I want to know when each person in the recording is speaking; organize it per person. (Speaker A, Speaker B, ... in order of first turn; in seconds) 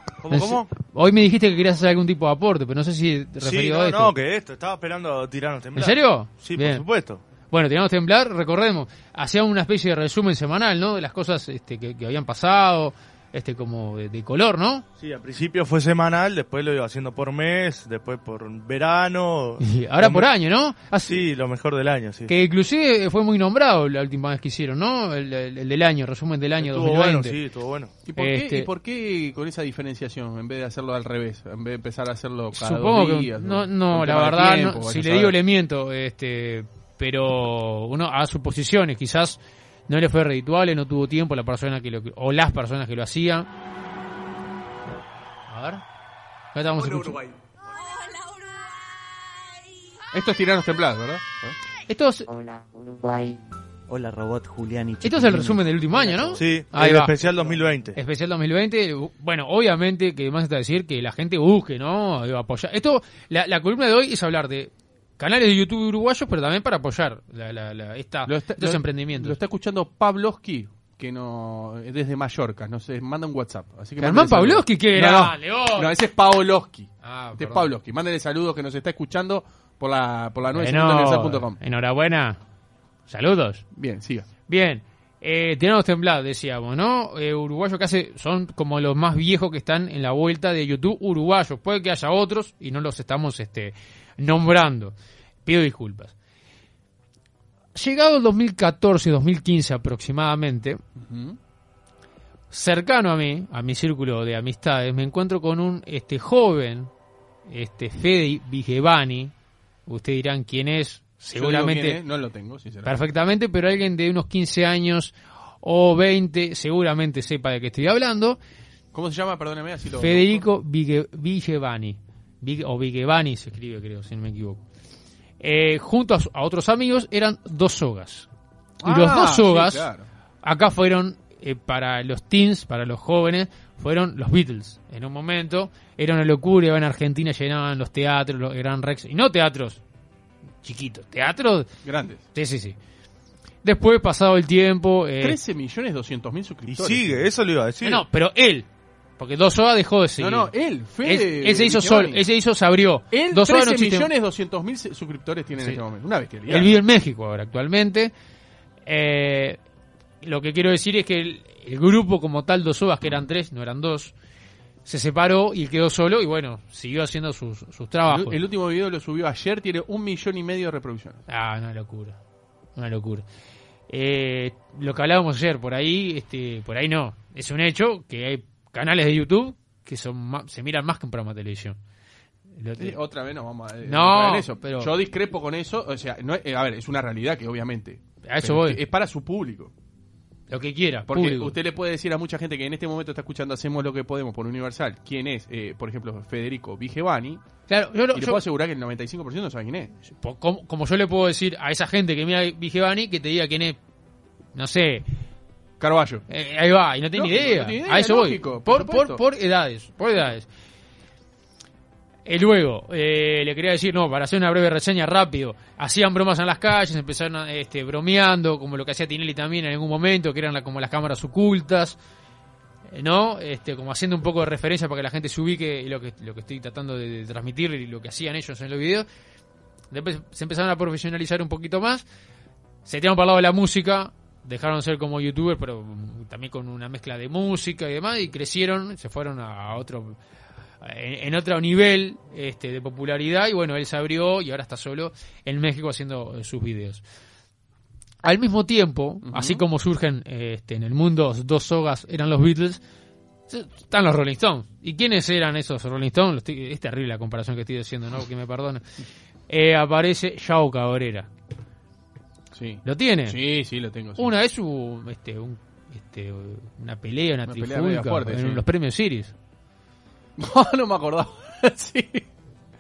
Speaker A: 0.2-0.7, 3.4-7.2, 15.0-20.3, 21.1-22.3, 26.6-27.9, 56.3-58.0, 146.7-148.1
Speaker B: 0.3-4.1, 5.8-6.8, 7.5-14.8, 19.6-21.2, 22.3-27.4, 28.2-28.7, 32.6-43.5, 45.5-45.8, 46.5-47.2, 51.9-52.3, 55.0-57.2, 57.9-69.4, 74.0-75.9, 77.0-77.7, 80.5-82.4, 83.1-83.6, 84.5-94.9, 95.5-96.1, 97.8-100.8, 102.5-106.9, 107.5-109.3, 109.9-112.0, 112.8-118.4, 120.0-124.6, 125.4-128.3, 128.8-129.9, 130.4-139.8, 140.6-141.7, 142.3-142.8, 143.6-145.4, 147.8-148.7, 149.2-150.5, 151.0-154.1, 156.5-158.1, 158.9-159.6, 160.2-164.1, 164.9-168.4, 171.3-172.2, 172.8-173.2, 173.9-181.8, 182.6-183.0, 183.8-184.9, 188.3-188.8, 190.5-191.6, 197.7-198.4, 200.1-203.8, 204.6-205.1, 206.3-210.5, 212.3-222.0, 222.9-229.1, 229.9-232.1, 232.8-240.2, 240.8-247.0, 248.2-252.8, 253.5-258.8, 259.5-261.3, 262.8-263.4, 264.2-269.3
Speaker C: 28.1-35.4, 46.8-47.4, 50.1-51.6, 68.3-81.6, 83.8-84.3, 101.0-101.4, 111.3-113.0, 118.9-120.4, 128.8-130.1, 141.8-142.2, 145.2-147.3, 150.2-152.2, 153.1-156.8, 168.1-171.2, 182.8-189.7, 191.1-197.4, 198.1-199.9, 205.8-206.2, 207.2-209.2, 249.2-249.6, 262.5-264.3, 267.5-268.6, 270.4-272.2
Speaker D: 52.9-53.3, 53.9-56.4